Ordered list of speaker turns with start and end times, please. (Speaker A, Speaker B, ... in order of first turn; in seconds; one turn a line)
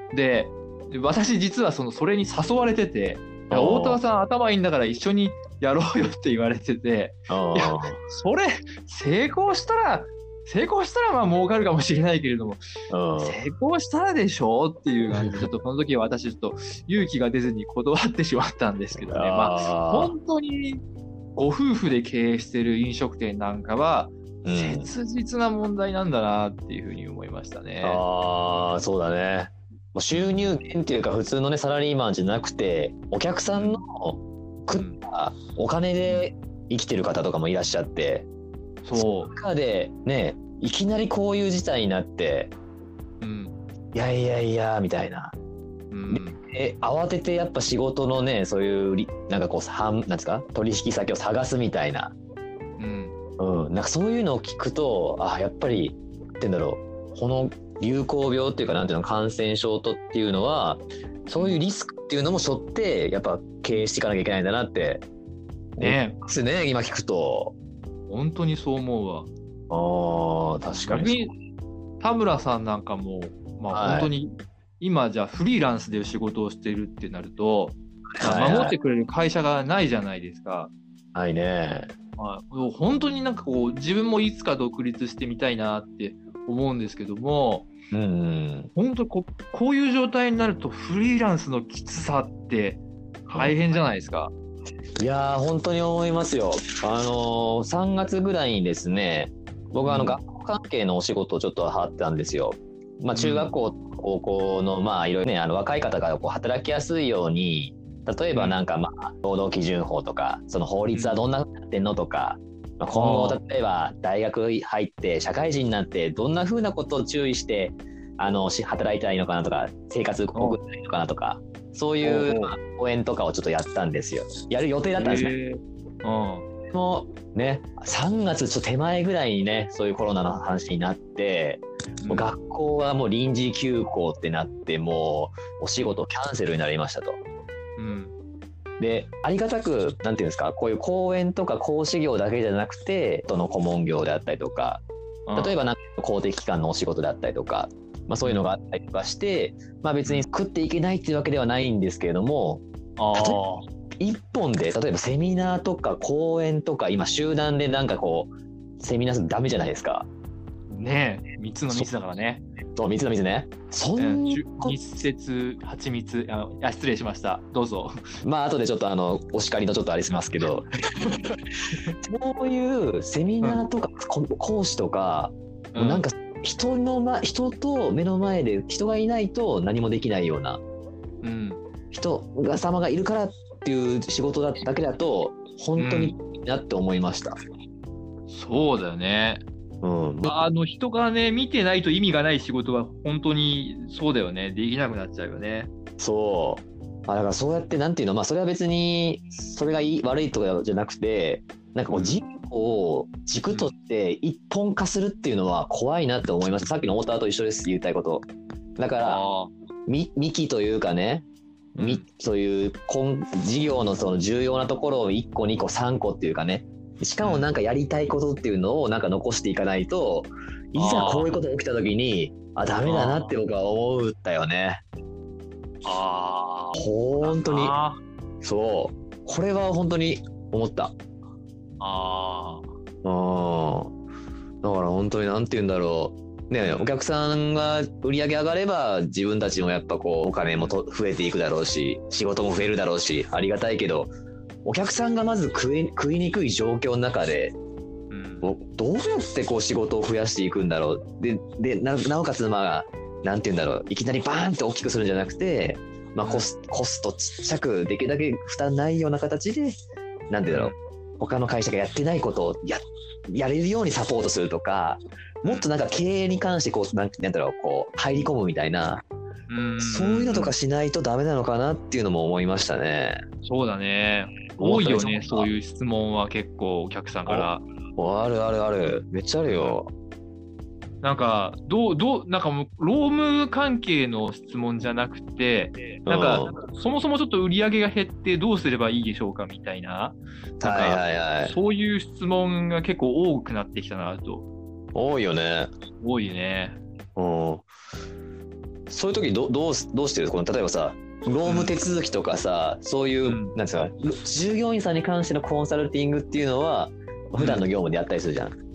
Speaker A: 0.1-12.6
Speaker B: 3.5-4.0
Speaker B: 7.3-8.0
Speaker B: 12.9-13.4
Speaker A: 13.2-20.8
Speaker B: 15.2-15.5
Speaker B: 19.1-20.1
Speaker A: 21.4-28.0
Speaker B: 24.4-24.9
Speaker B: 27.8-38.3
Speaker A: 30.1-30.5
Speaker A: 33.5-33.8
Speaker A: 34.7-35.0
Speaker A: 38.8-39.3
Speaker B: 38.9-42.5
Speaker A: 43.2-43.5
Speaker B: 43.9-45.4
Speaker A: 45.9-46.4
Speaker B: 46.1-52.1
Speaker A: 52.8-53.1
Speaker B: 53.4-65.0
Speaker B: 65.8-67.5
Speaker A: 65.8-66.2
Speaker A: 68.1-69.3
Speaker B: 69.7-71.2
Speaker A: 70.8-71.3
Speaker A: 72.0-80.7
Speaker B: 73.7-74.1
Speaker B: 78.2-78.8
Speaker B: 81.1-81.9
Speaker A: 82.2-87.7
Speaker B: 87.9-88.7
Speaker A: 88.8-94.3
Speaker B: 93.3-93.6
Speaker B: 95.0-125.3
Speaker A: 99.8-100.2
Speaker A: 103.1-103.6
Speaker A: 108.3-108.6
Speaker A: 110.9-111.2
Speaker A: 112.9-113.4
Speaker A: 122.0-122.5
Speaker A: 125.0-126.5
Speaker B: 126.7-137.2
Speaker A: 132.0-132.3
Speaker A: 137.8-138.1
Speaker B: 138.8-144.8
Speaker A: 145.3-145.6
Speaker B: 145.4-153.4
Speaker A: 148.2-148.5
Speaker A: 153.0-153.7
Speaker B: 154.0-160.1
Speaker A: 160.7-162.4
Speaker B: 162.8-164.8
Speaker A: 164.0-168.0
Speaker B: 168.2-180.6
Speaker A: 175.7-176.1
Speaker A: 181.2-181.6
Speaker B: 181.9-187.4
Speaker A: 185.8-186.2
Speaker A: 188.3-189.4
Speaker B: 189.8-190.4
Speaker A: 190.2-195.7
Speaker B: 196.0-208.2
Speaker A: 201.9-202.2
Speaker B: 208.8-209.2
Speaker A: 209.0-209.5
Speaker B: 209.9-211.3
Speaker A: 211.8-212.0
Speaker B: 211.8-224.8
Speaker A: 217.2-217.5
Speaker A: 220.8-221.3
Speaker A: 222.8-223.3
Speaker A: 225.8-228.0
Speaker B: 226.8-227.8
Speaker B: 228.4-231.0
Speaker A: 231.8-232.7
Speaker B: 233.0-233.9
Speaker B: 234.6-244.1
Speaker A: 236.6-236.9
Speaker B: 244.7-247.6
Speaker A: 248.1-248.5
Speaker B: 248.4-259.8
Speaker A: 256.2-256.5
Speaker B: 260.3-269.0
Speaker A: 260.5-260.8
Speaker A: 269.5-270.6
Speaker B: 269.8-273.2
Speaker A: 273.4-277.6
Speaker B: 274.6-275.5
Speaker B: 277.3-279.9
Speaker A: 279.5-279.8
Speaker A: 281.0-294.5
Speaker B: 286.1-286.6
Speaker B: 290.6-291.6
Speaker B: 294.9-295.7
Speaker A: 296.0-296.8
Speaker B: 297.2-297.6
Speaker B: 298.9-308.6
Speaker A: 301.5-301.8
Speaker A: 303.2-303.6
Speaker A: 307.4-307.7